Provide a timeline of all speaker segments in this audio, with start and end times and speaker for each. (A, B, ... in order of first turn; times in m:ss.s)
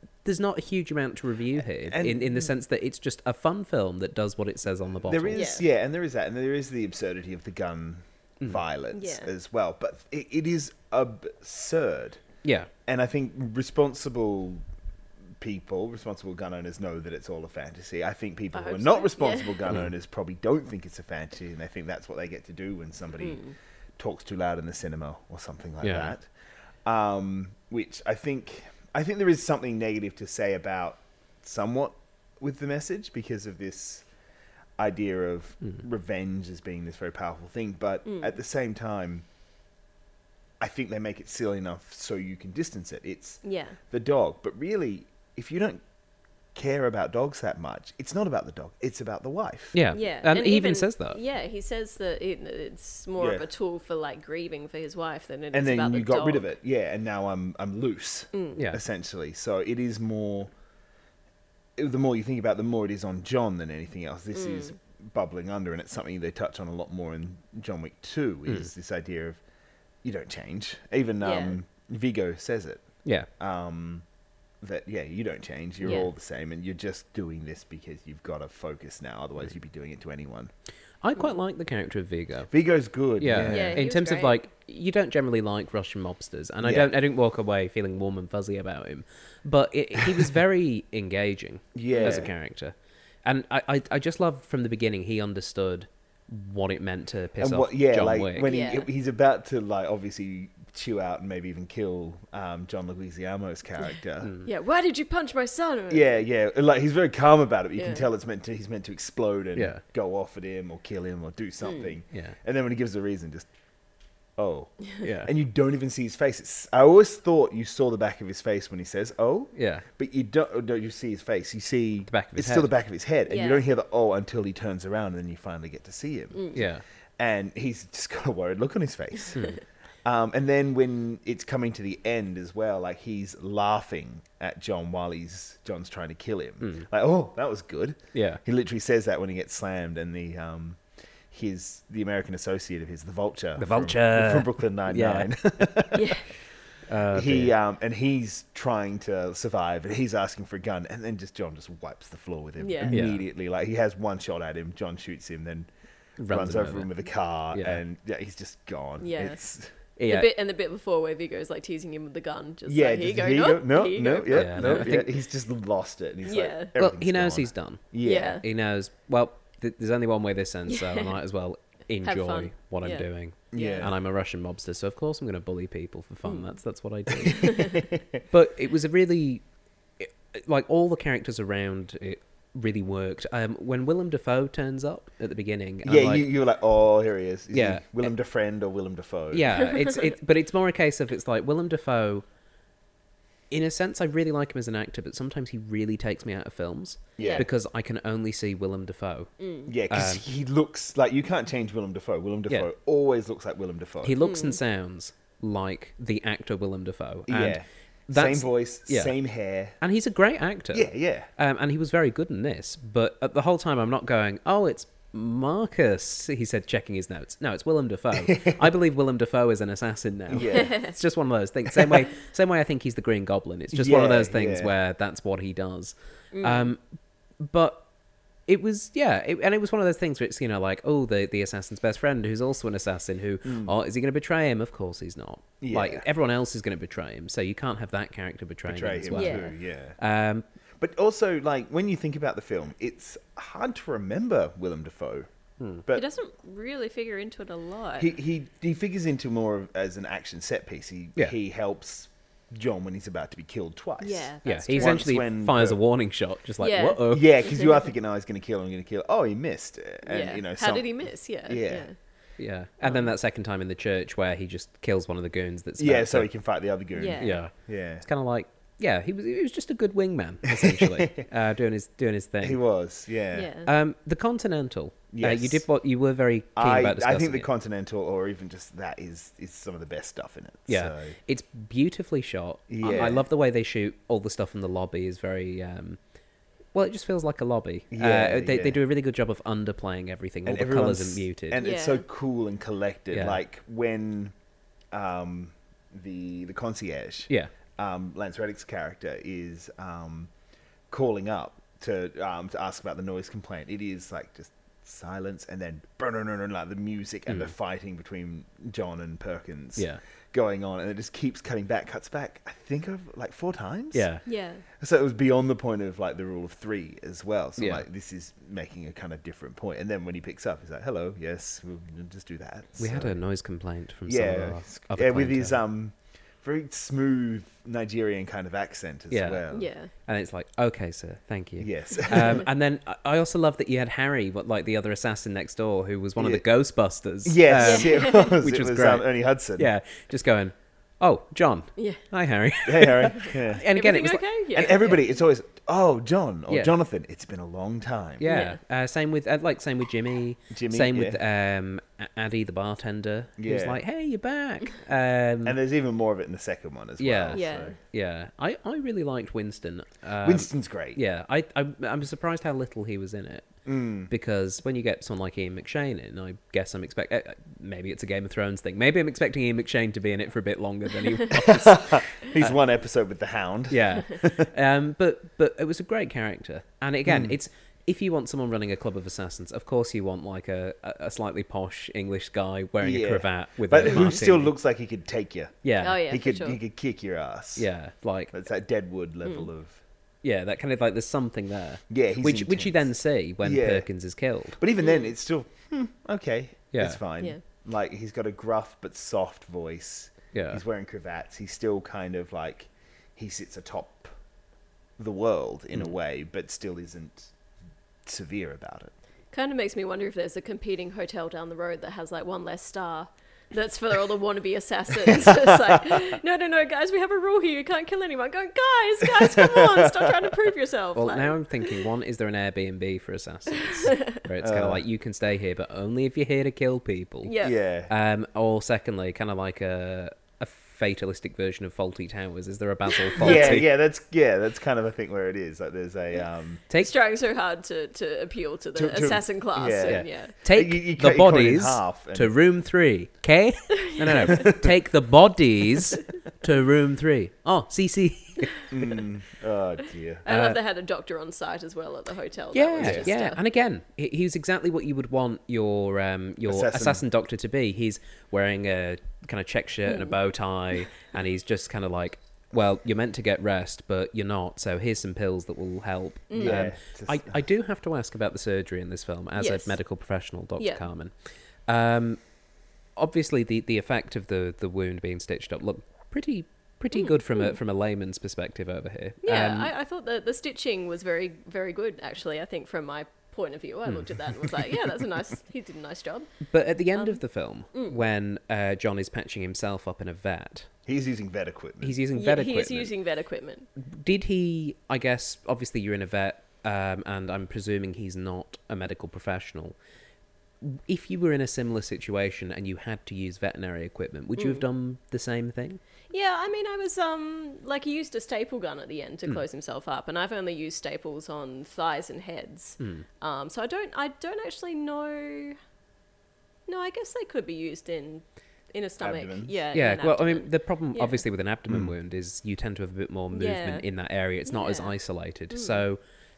0:00.2-0:05.5 A
0:01.8-0:02.5 B
0:05.0-0:12.2 B
0:05.3-0:05.6 C
0:08.9-0:09.3 C
0:12.4-0:12.7 A
0:12.8-0:14.6 B
0:15.4-0:23.4 B
0:18.5-0:19.7 C
0:23.2-0:23.6 C
0:24.0-0:26.3 B
0:25.8-0:26.1 A
0:26.8-0:34.0 B
0:34.8-0:39.2 B
0:38.0-0:38.3 C
0:40.6-0:45.8 B
0:43.4-0:43.8 C
0:46.5-0:49.8 B
0:49.7-0:51.2 A
0:49.9-0:56.5 C
0:53.2-0:53.4 B
0:55.5-1:00.5 B
0:58.3-0:58.6 C
0:58.5-0:58.8 A
1:01.8-1:09.4 B
1:04.3-1:04.7 C
1:10.0-1:12.8 B
1:11.2-1:11.5 C
1:13.4-1:14.0 B
1:14.6-1:20.5 B
1:15.8-1:16.1 A
1:21.0-1:22.5 A
1:22.5-1:23.8 B
1:23.2-1:38.5 A
1:23.4-1:24.4 C
1:26.6-1:26.9 B
1:31.7-1:32.3 B
1:31.9-1:32.2 C
1:37.4-1:44.3 B
1:38.4-1:38.9 C
1:44.2-1:44.5 A
1:44.4-1:46.2 C
1:45.9-1:53.5 B
1:47.8-1:48.0 C
1:49.5-1:49.8 A
1:51.6-1:51.9 C
1:52.1-1:52.4 A
1:54.4-2:06.5 B
1:55.0-1:55.3 A
1:59.5-1:59.8 A
2:02.1-2:02.7 A
2:03.3-2:03.6 C
2:06.3-2:06.6 C
2:06.5-2:06.8 A
2:07.2-2:26.2 B
2:09.3-2:09.6 A
2:16.6-2:16.9 A
2:18.1-2:18.4 A
2:23.6-2:25.3 A
2:25.9-2:26.3 C
2:26.9-2:27.5 A
2:27.1-2:35.7 B
2:32.6-2:33.0 C
2:32.9-2:33.2 A
2:36.2-2:36.9 A
2:36.3-2:39.7 B
2:37.5-2:37.8 A
2:39.0-2:39.4 C
2:40.0-2:40.3 A
2:40.1-2:45.0 C
2:42.7-2:48.4 B
2:44.3-2:45.1 A
2:46.2-2:46.7 C
2:46.8-2:47.9 A
2:48.0-2:48.4 C
2:48.4-2:59.4 A
2:50.7-2:51.1 C
2:52.0-2:53.9 C
2:53.5-2:53.9 B
2:57.2-2:58.2 B
2:57.3-2:57.8 C
3:00.0-3:06.3 A
3:05.8-3:09.5 B
3:07.5-3:08.1 A
3:09.3-3:12.2 A
3:09.6-3:10.0 C
3:13.5-3:19.3 A
3:17.2-3:17.5 B
3:17.2-3:17.4 C
3:19.4-3:19.7 C
3:19.7-3:24.2 B
3:19.9-3:20.2 A
3:24.0-3:29.2 A
3:24.2-3:24.6 C
3:27.3-3:29.8 B
3:29.8-3:46.8 A
3:30.7-3:31.3 B
3:38.2-3:38.7 B
3:40.3-3:40.8 B
3:40.4-3:40.9 C
3:41.7-3:42.0 B
3:43.7-3:44.7 B
3:46.3-3:46.7 C
3:47.4-3:47.8 A
3:48.5-4:00.4 A
3:53.4-3:53.7 B
3:55.6-3:56.1 B
3:58.7-4:00.0 B
3:59.1-3:59.5 C
4:00.8-4:05.3 B
4:05.6-4:05.8 A
4:05.9-4:08.1 C
4:08.0-4:15.8 B
4:14.0-4:15.1 C
4:14.4-4:17.3 A
4:16.6-4:17.9 C
4:17.1-4:20.9 B
4:20.0-4:21.9 C
4:21.4-4:21.9 B
4:22.4-4:26.3 A
4:22.8-4:23.1 C
4:25.8-4:28.0 B
4:26.9-4:27.4 C
4:27.2-4:32.6 A
4:30.4-4:31.3 B
4:32.4-4:33.5 B
4:33.3-4:33.7 C
4:33.6-4:37.5 A
4:35.1-4:35.6 B
4:36.6-4:41.2 B
4:40.7-4:46.0 A
4:42.7-4:43.2 B
4:42.8-4:43.2 C
4:46.7-4:51.6 A
4:47.9-4:48.8 B
4:50.4-4:54.3 B
4:51.6-4:52.0 C
4:53.1-4:53.4 A
4:54.9-5:00.3 B
5:00.9-5:14.1 B
5:07.3-5:07.5 A
5:09.8-5:10.0 A
5:13.9-5:14.2 A
5:14.2-5:14.6 C
5:14.8-5:23.2 B
5:17.6-5:17.8 A
5:22.8-5:25.6 A
5:24.1-5:29.7 B
5:29.1-5:29.4 A
5:29.5-5:29.9 C
5:30.0-5:44.2 A
5:31.6-5:32.4 B
5:36.2-5:36.4 B
5:37.2-5:39.7 B
5:37.6-5:38.3 C
5:41.8-5:42.0 C
5:42.6-5:43.7 B
5:43.2-5:45.0 C
5:44.5-5:48.2 B
5:46.5-5:46.7 A
5:48.2-5:55.6 A
5:48.2-5:48.6 C
5:50.5-5:51.2 B
5:53.4-5:53.8 B
5:55.4-5:57.7 B
5:57.0-6:03.5 A
5:57.3-5:57.8 C
6:00.2-6:01.0 B
6:03.6-6:04.1 B
6:04.1-6:12.6 A
6:11.3-6:14.5 B
6:13.7-6:24.5 A
6:17.1-6:17.3 B
6:22.8-6:27.7 B
6:25.6-6:26.0 A
6:25.8-6:26.6 C
6:27.6-6:28.3 A
6:28.3-6:29.8 B
6:29.2-6:29.5 C
6:30.2-6:34.6 A
6:31.9-6:32.9 B
6:33.4-6:33.9 B
6:34.6-6:44.1 B
6:34.8-6:35.1 C
6:36.7-6:37.0 A
6:40.3-6:40.6 A
6:45.0-6:47.3 B
6:48.0-6:48.9 B
6:49.3-7:01.8 C
6:55.1-6:56.0 B
6:59.1-7:00.2 B
7:00.9-7:07.3 A
7:03.6-7:04.2 C
7:04.4-7:04.8 B
7:07.2-7:07.6 C
7:07.4-7:07.9 B
7:07.9-7:13.7 A
7:13.0-7:13.6 C
7:13.2-7:16.6 B
7:16.7-7:16.9 A
7:16.8-7:20.3 C
7:18.7-7:22.3 B
7:19.8-7:28.6 A
7:23.7-7:24.5 C
7:24.2-7:24.7 B
7:28.7-7:30.2 B
7:30.2-7:33.4 C
7:30.3-7:30.6 A
7:32.5-7:51.1 A
7:32.8-7:33.1 B
7:36.4-7:37.0 B
7:39.9-7:40.2 C
7:46.3-7:46.6 C
7:46.4-7:47.4 B
7:49.4-7:49.8 C
7:50.6-7:50.8 C
7:51.7-7:52.2 A
7:53.0-7:59.7 A
7:56.9-7:57.6 C
7:59.2-8:06.3 C
8:06.5-8:10.7 A
8:06.9-8:07.2 C
8:07.7-8:08.0 C
8:10.8-8:12.0 B
8:11.8-8:12.9 A
8:12.1-8:13.7 C
8:13.8-8:19.8 A
8:20.6-8:25.8 A
8:24.4-8:24.6 C
8:26.1-8:35.6 C
8:32.8-8:33.0 A
8:36.7-8:41.2 C
8:39.0-8:39.5 B
8:39.7-8:46.0 A
8:41.7-8:41.9 B
8:43.3-8:43.8 C
8:44.5-8:44.9 C
8:45.5-8:45.8 C